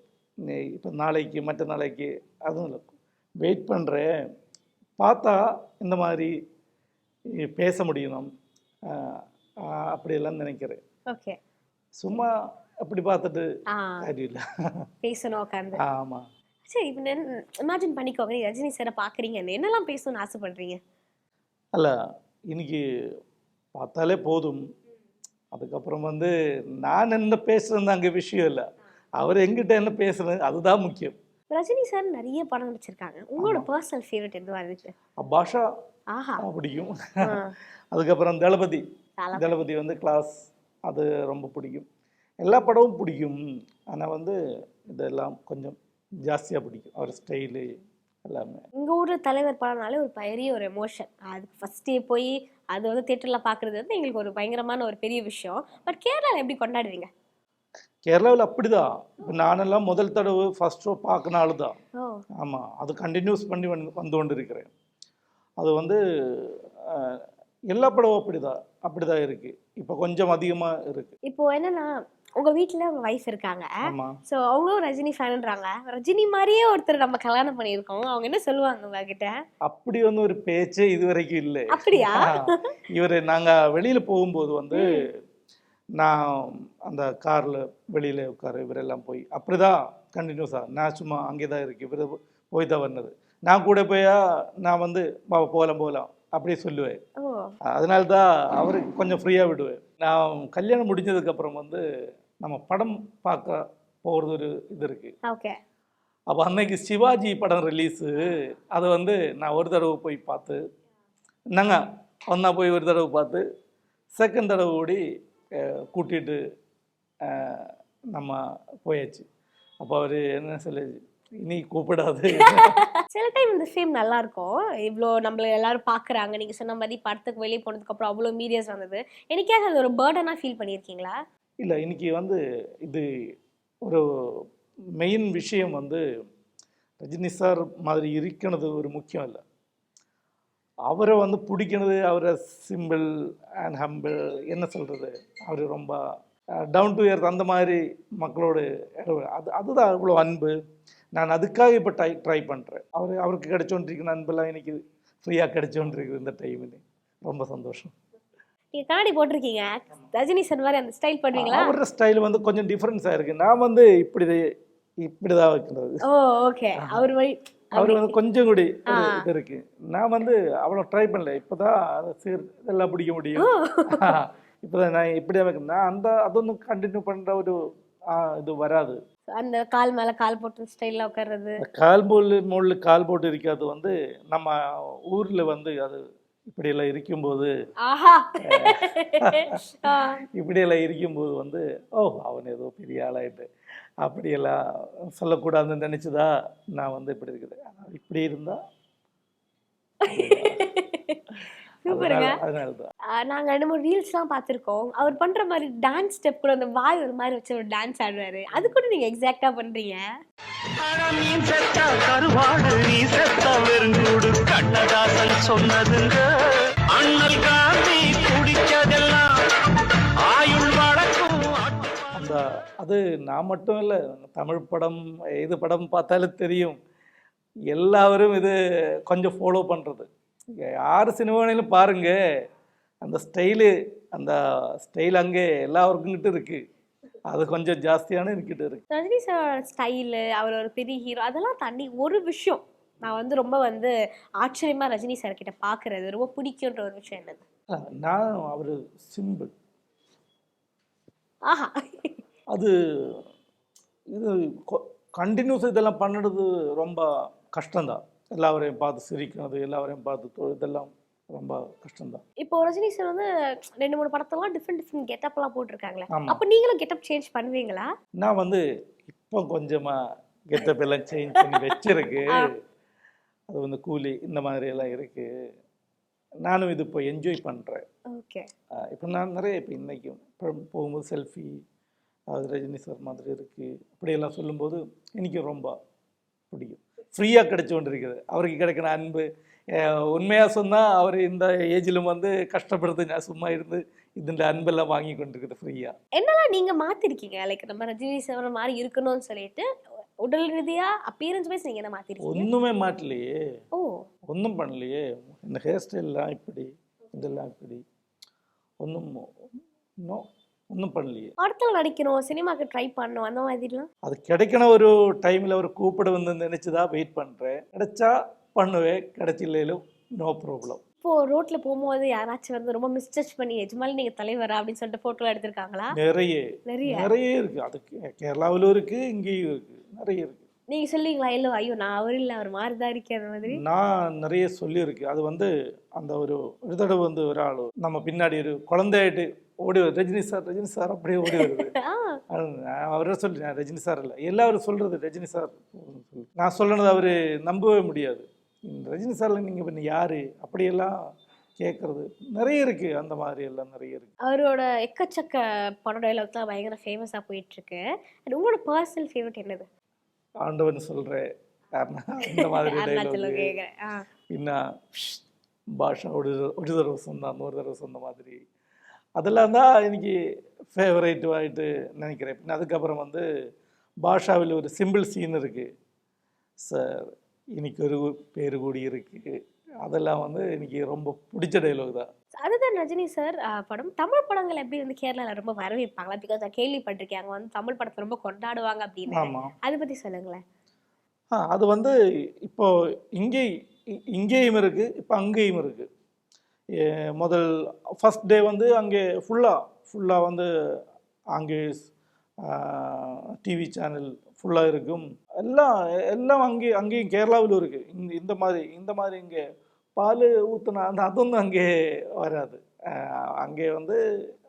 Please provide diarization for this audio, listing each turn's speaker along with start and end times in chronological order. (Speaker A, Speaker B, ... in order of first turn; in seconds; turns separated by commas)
Speaker A: 0.4-2.9, Speaker A: 3.4-4.1, Speaker A: 5.0-6.3, Speaker A: 7.4-8.3, Speaker A: 8.9-10.8, Speaker B: 11.1-11.4, Speaker A: 12.0-12.3, Speaker A: 12.8-13.4, Speaker B: 13.7-14.1, Speaker A: 14.0-14.4, Speaker B: 15.0-15.8, Speaker A: 15.8-16.2, Speaker B: 16.7-20.8, Speaker A: 22.5-22.8, Speaker A: 23.7-24.6, Speaker A: 25.5-28.6, Speaker A: 29.2-31.1, Speaker B: 31.5-34.9, Speaker A: 33.4-33.7, Speaker A: 35.2-35.6, Speaker B: 36.1-36.4, Speaker A: 36.4-37.4, Speaker B: 37.2-37.5, Speaker A: 37.9-38.8, Speaker B: 39.2-39.6, Speaker A: 39.3-40.3, Speaker A: 40.9-41.9, Speaker A: 42.4-43.4, Speaker A: 43.9-47.7, Speaker A: 48.2-48.6, Speaker B: 48.8-57.1, Speaker A: 58.1-61.7, Speaker B: 62.0-62.2, Speaker A: 62.4-64.7, Speaker A: 65.6-71.1, Speaker B: 71.3-73.7, Speaker A: 73.8-74.2, Speaker B: 74.3-79.3, Speaker A: 79.7-85.0, Speaker B: 81.7-82.7, Speaker A: 86.0-97.0, Speaker B: 97.2-97.5, Speaker A: 97.7-101.8, Speaker A: 102.4-105.1, Speaker B: 105.2-105.6, Speaker A: 106.3-110.6, Speaker A: 111.5-113.4, Speaker A: 114.2-115.0, Speaker A: 115.5-116.4, Speaker A: 117.2-119.2, Speaker A: 119.8-122.8, Speaker B: 122.4-131.2, Speaker A: 131.6-133.1, Speaker A: 133.8-134.4, Speaker A: 135.0-136.0, Speaker A: 137.0-139.4, Speaker A: 140.9-143.1, Speaker A: 143.6-146.0, Speaker A: 146.7-150.5, Speaker A: 151.2-157.9, Speaker B: 158.7-161.7, Speaker A: 161.3-164.4, Speaker A: 165.0-166.0, Speaker B: 166.0-168.1, Speaker A: 166.8-167.1, Speaker A: 167.7-177.6, Speaker B: 168.9-169.2, Speaker B: 173.4-174.2, Speaker A: 178.1-179.0, Speaker B: 179.3-181.6, Speaker A: 181.6-184.6, Speaker A: 185.1-187.5, Speaker B: 187.8-190.2, Speaker A: 188.4-189.6, Speaker A: 190.3-193.5, Speaker A: 194.0-194.6, Speaker A: 195.2-198.6, Speaker B: 200.0-201.2, Speaker A: 200.1-200.7, Speaker B: 201.8-202.4, Speaker A: 201.8-202.9, Speaker B: 203.1-210.0, Speaker C: 210.8-216.3, Speaker C: 216.9-219.4, Speaker C: 220.2-222.1, Speaker A: 222.1-226.8, Speaker A: 227.7-228.6, Speaker A: 229.1-230.1, Speaker A: 230.6-232.2, Speaker A: 233.0-236.6, Speaker A: 237.3-238.8, Speaker B: 238.9-247.4, Speaker A: 247.7-249.5, Speaker B: 251.4-252.2, Speaker A: 252.5-253.2, Speaker A: 254.1-262.2, Speaker B: 262.4-267.9, Speaker A: 266.1-266.4, Speaker A: 268.2-272.5, Speaker A: 273.5-275.3, Speaker A: 276.5-277.8, Speaker B: 278.1-278.5, Speaker A: 278.9-281.6, Speaker A: 282.3-285.7, Speaker A: 286.5-295.9, Speaker B: 296.2-299.7, Speaker B: 300.2-302.5, Speaker A: 302.2-303.3, Speaker B: 303.7-304.1, Speaker A: 304.3-307.8, Speaker A: 308.8-309.2, Speaker A: 310.0-311.3, Speaker B: 311.4-313.9, Speaker A: 314.0-320.8, Speaker B: 321.0-325.9, Speaker A: 325.9-330.4, Speaker B: 326.7-327.1, Speaker B: 330.7-333.6, Speaker A: 333.5-341.7, Speaker B: 341.3-342.2, Speaker A: 342.3-351.0, Speaker A: 351.6-354.1, Speaker B: 354.2-359.6, Speaker A: 360.4-363.5, Speaker B: 362.2-364.0, Speaker A: 364.3-365.2, Speaker A: 365.8-368.4, Speaker A: 369.2-370.1, Speaker A: 370.7-373.2, Speaker A: 374.0-375.7, Speaker A: 376.6-382.1, Speaker B: 382.4-390.4, Speaker A: 389.1-389.5, Speaker A: 391.3-391.9, Speaker A: 392.5-393.5, Speaker A: 394.1-395.9, Speaker A: 396.8-397.5, Speaker A: 398.0-400.5, Speaker A: 401.4-401.9, Speaker A: 402.4-409.4, Speaker A: 410.0-414.0